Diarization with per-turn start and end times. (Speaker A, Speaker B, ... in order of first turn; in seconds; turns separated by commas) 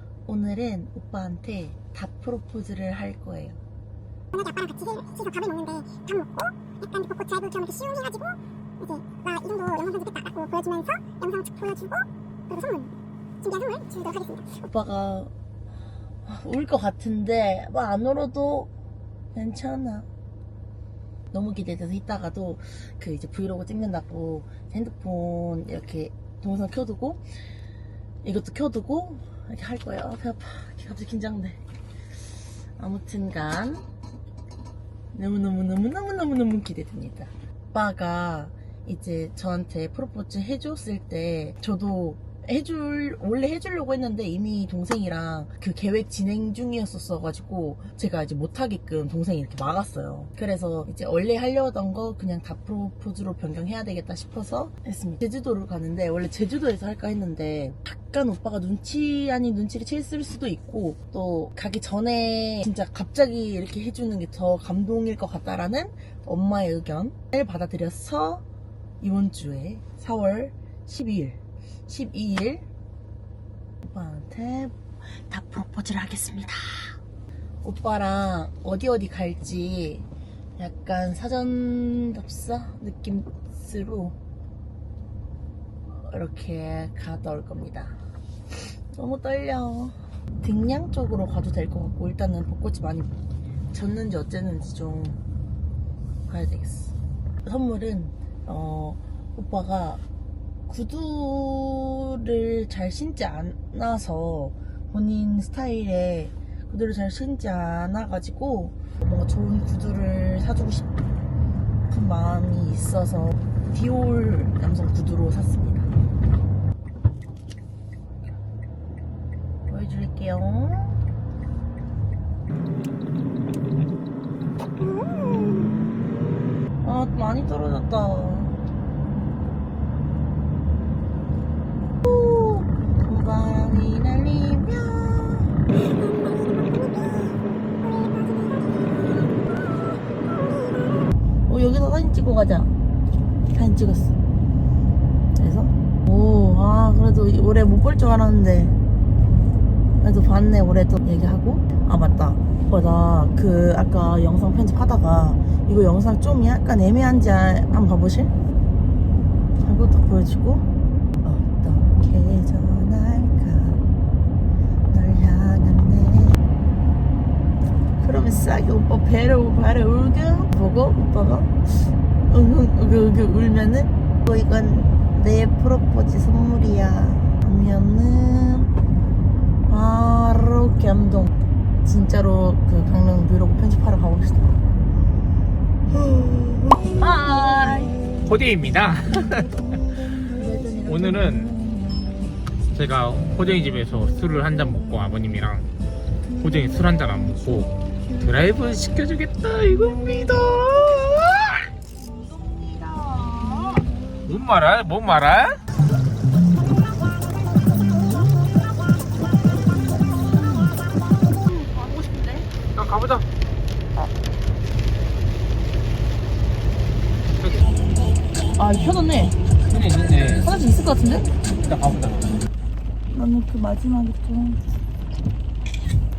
Speaker A: 0.2-3.6, Speaker B: 4.3-14.6, Speaker A: 14.7-15.3, Speaker A: 16.2-18.7, Speaker A: 19.3-20.1, Speaker A: 21.3-27.5, Speaker A: 28.2-31.6, Speaker A: 32.8-33.8, Speaker A: 35.1-68.4, Speaker A: 69.0-72.7, Speaker A: 73.8-77.0, Speaker A: 77.6-80.0, Speaker A: 80.6-84.2, Speaker A: 85.9-88.0, Speaker A: 88.6-93.1, Speaker A: 93.7-95.2, Speaker A: 96.3-100.0, Speaker A: 100.7-110.9, Speaker A: 111.9-115.9, Speaker A: 119.7-121.0, Speaker A: 126.8-128.6, Speaker A: 132.0-135.7, Speaker B: 135.9-138.8, Speaker A: 141.5-142.7, Speaker A: 143.5-144.2, Speaker A: 145.3-148.8, Speaker A: 150.0-158.3, Speaker A: 159.6-160.7, Speaker A: 161.2-163.8, Speaker A: 164.9-166.4, Speaker A: 168.0-178.7, Speaker A: 179.7-184.5, Speaker A: 186.0-188.3, Speaker C: 188.2-189.8, Speaker A: 189.3-192.3, Speaker C: 190.8-191.5, Speaker C: 192.7-195.7, Speaker C: 196.4-201.7, Speaker A: 202.2-203.8, Speaker C: 204.2-205.6, Speaker A: 211.4-212.4, Speaker C: 212.7-213.2, Speaker C: 217.4-217.6, Speaker A: 218.6-219.4, Speaker C: 219.7-220.5, Speaker A: 220.3-221.3, Speaker C: 221.6-222.4, Speaker A: 223.1-224.6